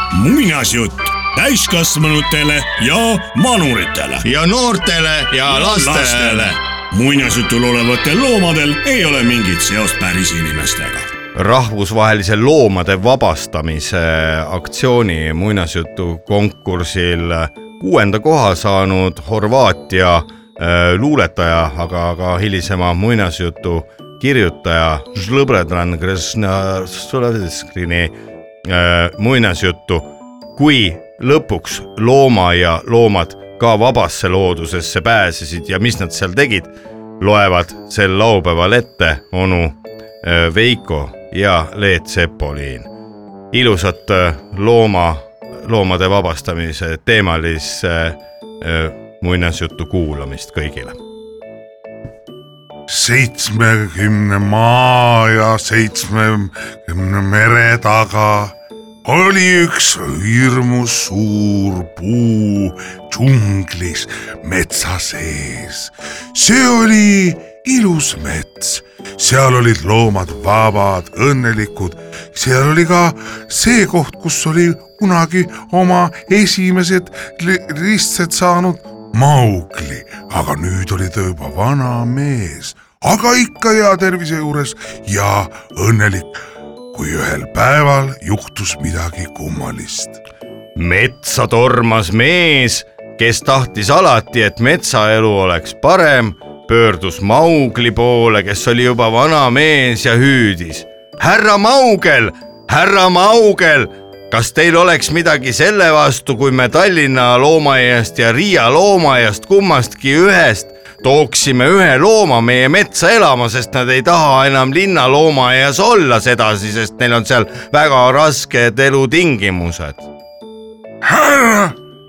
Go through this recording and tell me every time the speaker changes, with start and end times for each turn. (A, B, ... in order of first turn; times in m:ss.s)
0:00.1-0:04.2 A
0:04.2-0:06.6 B
0:05.4-0:11.1 A
0:11.3-0:42.9 B
0:43.5-0:51.0 B
0:52.9-1:26.4 C
1:26.9-1:30.2 C
1:30.8-2:00.0 B
2:01.0-2:01.8 C